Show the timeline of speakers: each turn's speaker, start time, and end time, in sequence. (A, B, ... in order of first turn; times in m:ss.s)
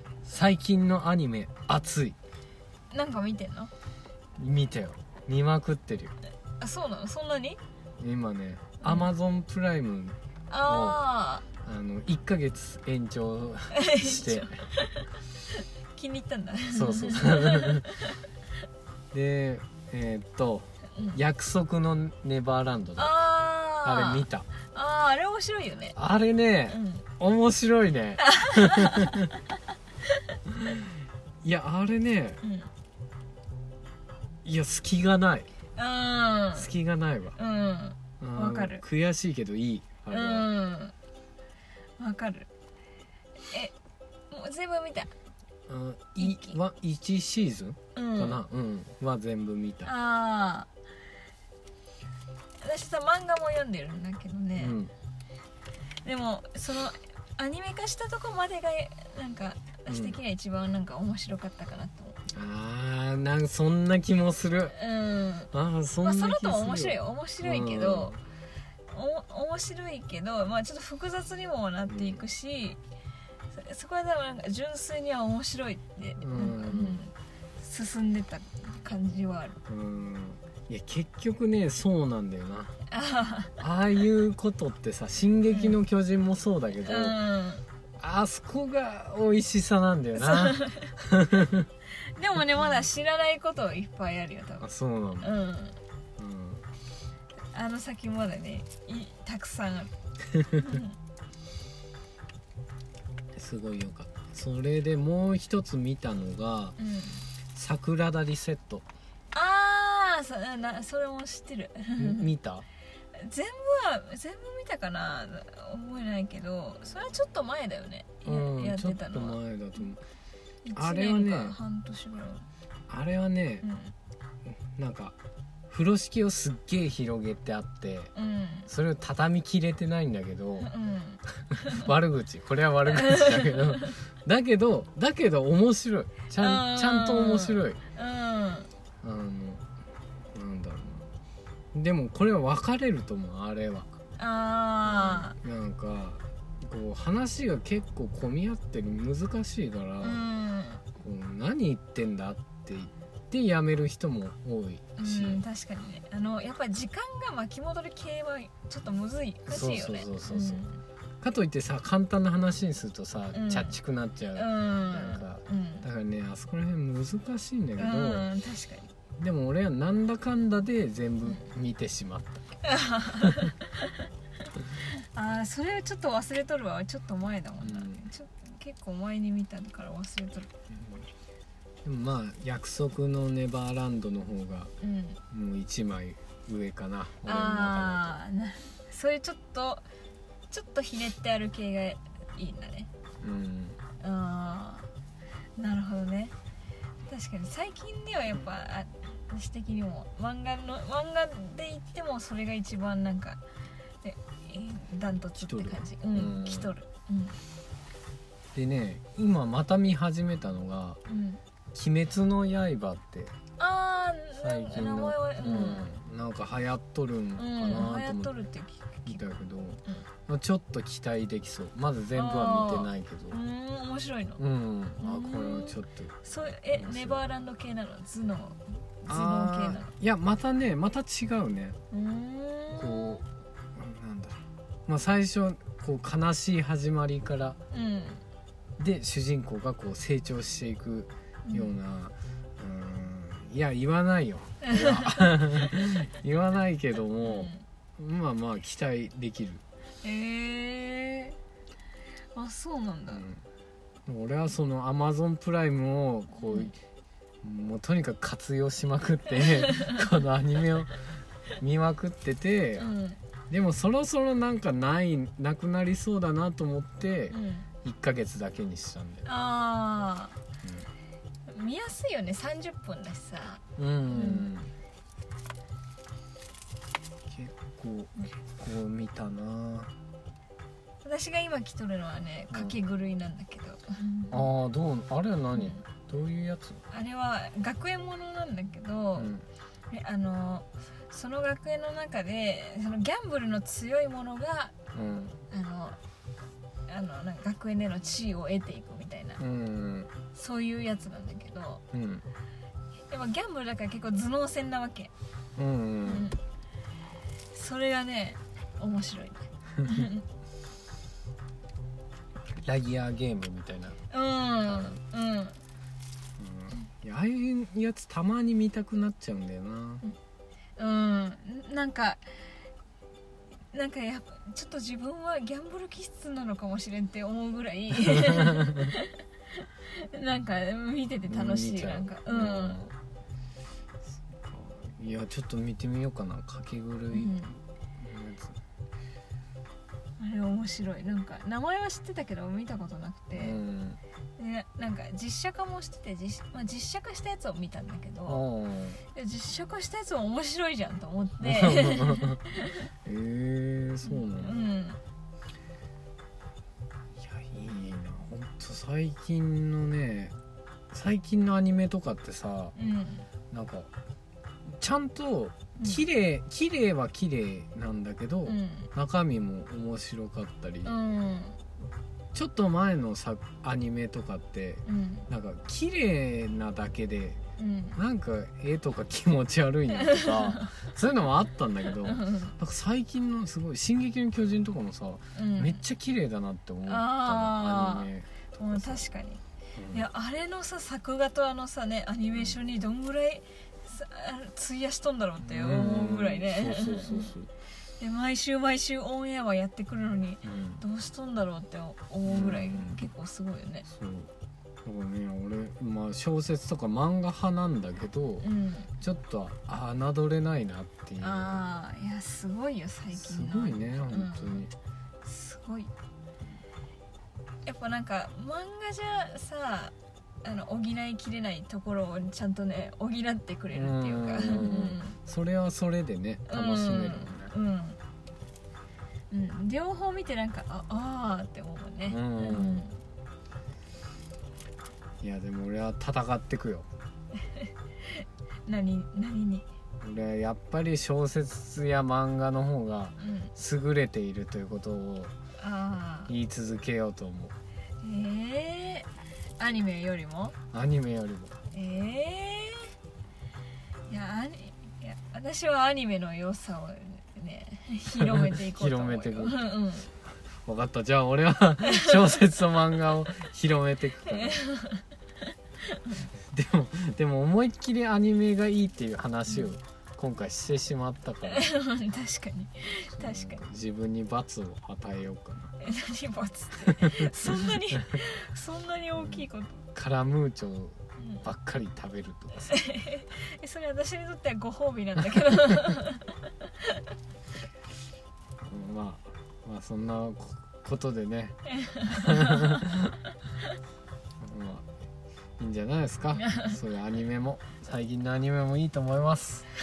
0:00.2-0:02.2 A
0:02.9-0:03.7 B
0:04.4-0:06.1 A
0:06.6-0:07.6 B
0:08.0-0:11.0 A
0:10.5-0:11.4 B
0:11.6-0:14.7 A
0:13.7-0:18.2 B
0:16.7-0:17.9 A
0:19.1-0:23.2 A
0:23.0-0:26.0 B
0:23.8-0:24.5 A
0:25.9-0:29.3 A
0:26.7-0:27.0 B
0:28.2-0:29.2 B
0:30.5-0:30.8 A
0:31.4-0:32.4 A
0:32.4-0:32.7 B
0:34.4-0:35.5 A
0:35.8-0:36.7 B
0:36.5-0:37.4 A
0:37.4-0:38.8 B
0:38.2-0:40.5 A
0:40.1-0:40.9 B
0:42.0-0:42.5 B
0:44.3-0:45.1 B
0:45.7-0:49.9 A
0:46.2-0:46.6 B
0:48.0-0:48.4 B
0:49.8-0:50.7 B
0:52.6-0:54.8 B
0:54.5-0:54.9 A
0:56.0-1:02.2 B
0:59.9-1:00.2 A
1:02.3-1:04.8 A
1:04.7-1:08.2 B
1:05.5-1:08.2 A
1:08.9-1:12.8 B
1:11.9-1:12.3 A
1:13.5-1:19.6 B
1:16.2-1:17.0 A
1:19.7-1:22.7 A
1:22.9-1:23.5 B
1:23.6-1:27.2 A
1:25.5-1:25.8 B
1:26.8-1:27.6 B
1:28.0-1:31.7 A
1:30.2-1:30.9 B
1:32.2-1:34.7 B
1:34.6-1:35.3 A
1:35.2-1:35.8 B
1:36.2-1:36.6 A
1:37.5-1:39.9 B
1:40.3-1:40.6 A
1:40.6-1:40.9 B
1:43.3-1:46.8 A
1:46.8-1:47.3 B
1:47.5-1:48.8 A
1:49.3-1:52.3 B
1:52.0-1:52.6 A
1:53.1-1:59.4 B
1:58.2-2:00.0 A
2:00.6-2:02.5 B
2:00.7-2:01.6 A
2:02.9-2:03.6 A
2:03.6-2:03.9 B
2:04.6-2:05.1 A
2:05.7-2:08.1 A
2:08.1-2:08.7 B
2:08.7-2:10.7 A
2:10.6-2:11.8 B
2:11.5-2:17.8 A
2:12.9-2:13.9 B
2:16.4-2:18.7 B
2:19.0-2:19.6 A
2:20.3-2:21.0 A
2:21.7-2:23.9 A
2:24.2-2:25.4 B
2:24.8-2:30.2 A
2:30.0-2:30.8 B
2:30.9-2:35.4 A
2:35.0-2:40.8 B
2:39.4-2:40.6 A
2:41.2-2:48.3 A
2:43.3-2:43.8 B
2:44.3-2:45.9 B
2:47.8-2:48.9 B
2:49.2-2:52.4 A
2:52.6-2:54.0 B
2:54.9-3:00.5 B
2:57.6-2:58.1 A
3:00.7-3:01.1 A
3:01.8-3:04.7 A
3:04.8-3:05.2 B
3:05.3-3:08.2 A
3:07.2-3:09.8 B
3:10.5-3:12.9 B
3:13.2-3:13.8 A
3:14.0-3:14.9 B
3:15.6-3:16.3 B
3:17.1-3:23.4 B
3:24.0-3:27.4 B
3:25.4-3:26.7 A
3:28.5-3:31.0 A
3:31.1-3:31.4 B
3:31.7-3:33.3 A
3:33.6-3:35.9 B
3:34.4-3:38.3 A
3:37.4-3:39.2 B
3:39.0-3:43.4 A
3:42.1-3:44.4 B
3:44.4-3:47.2 A
3:45.0-3:49.9 B
3:49.1-3:51.8 A
3:51.9-3:53.2 B
3:52.7-3:53.2 A
3:53.8-3:57.6 A
3:57.7-3:58.2 B
3:58.8-4:09.6 A
4:01.4-4:01.7 B
4:04.6-4:05.4 B
4:07.2-4:07.6 B
4:10.0-4:11.4 B
4:12.3-4:13.2 B
4:13.1-4:13.4 A
4:14.1-4:16.8 A
4:16.3-4:16.7 B
4:17.4-4:21.0 A
4:19.6-4:20.0 B
4:21.6-4:22.9 A
4:22.8-4:23.2 B
4:23.5-4:29.3 A
4:27.3-4:27.7 B
4:29.2-4:30.4 B
4:31.5-4:34.5 B
4:33.8-4:34.7 A
4:37.3-4:39.9 A
4:41.0-4:44.5 B
4:42.5-4:42.8 A
4:44.3-4:46.8 A
4:45.5-4:45.8 B
4:46.9-4:49.3 B
4:49.2-4:49.4 A
4:49.9-4:54.8 B
4:54.9-4:55.4 A
4:55.5-4:56.0 B
4:56.9-4:59.4 B
4:59.4-5:00.1 A
5:00.3-5:01.8 B
5:01.9-5:02.2 A
5:03.1-5:05.1 B
5:05.6-5:06.3 A
5:06.0-5:06.4 B
5:07.5-5:10.2 B
5:09.8-5:10.0 A
5:12.6-5:14.0 A
5:14.1-5:15.6 B
5:14.6-5:15.0 A
5:16.4-5:20.0 A
5:20.8-5:22.2 B
5:23.7-5:32.8 B
5:28.1-5:28.9 A
5:31.2-5:32.9 A
5:34.3-5:38.6 A
5:37.1-5:37.5 B
5:40.2-5:43.6 B
5:43.3-5:44.0 A
5:44.4-5:48.4 B
5:48.2-5:49.0 A
5:49.1-5:52.9 B
5:51.4-5:52.4 A
5:53.0-5:54.6 A
5:54.1-5:55.0 B
5:57.2-6:00.3 A
6:00.9-6:02.7 A
6:02.7-6:03.3 B
6:03.5-6:03.9 A
6:04.7-6:11.0 A
6:05.8-6:06.0 B
6:08.4-6:08.9 B
6:10.8-6:11.6 B
6:12.3-6:17.4 A
6:14.8-6:15.3 B
6:17.6-6:18.0 B
6:18.0-6:29.0 A
6:19.9-6:20.9 B
6:22.0-6:22.5 B
6:25.3-6:25.8 B
6:26.8-6:37.3 B
6:29.7-6:30.0 A
6:32.3-6:32.6 A
6:35.4-6:37.5 A
6:38.0-6:43.8 B
6:40.4-6:40.8 A
6:42.2-6:43.0 A
6:43.8-6:44.3 A
6:44.8-6:48.5 A
6:48.4-6:48.9 B
6:49.0-6:51.6 A
6:51.2-6:54.7 B
6:53.1-6:54.7 A
6:55.2-6:55.9 B
6:57.6-7:05.2 B
7:03.7-7:07.5 A
7:06.5-7:08.0 B
7:09.3-7:13.0 B
7:12.0-7:12.8 A
7:15.2-7:16.9 A
7:17.5-7:19.6 B
7:20.0-7:25.3 A
7:23.2-7:23.5 B
7:25.6-7:26.3 B
7:26.3-7:27.5 A
7:28.0-7:29.1 B
7:29.6-7:30.6 B
7:30.7-7:31.6 A
7:31.7-7:32.9 B
7:34.1-7:40.1 B
7:38.1-7:39.6 A
7:40.6-7:44.6 A
7:41.8-7:42.4 B
7:44.3-7:45.0 B
7:45.8-7:46.2 B
7:46.5-7:51.7 A
7:51.5-7:53.6 B
7:53.0-7:55.8 A
7:55.8-7:59.9 B
7:56.8-7:57.3 A
7:59.2-8:02.8 A
8:01.2-8:01.4 B
8:02.7-8:07.0 B
8:08.7-8:13.0 A
8:11.7-8:12.8 B
8:14.4-8:14.8 A
8:15.6-8:19.7 A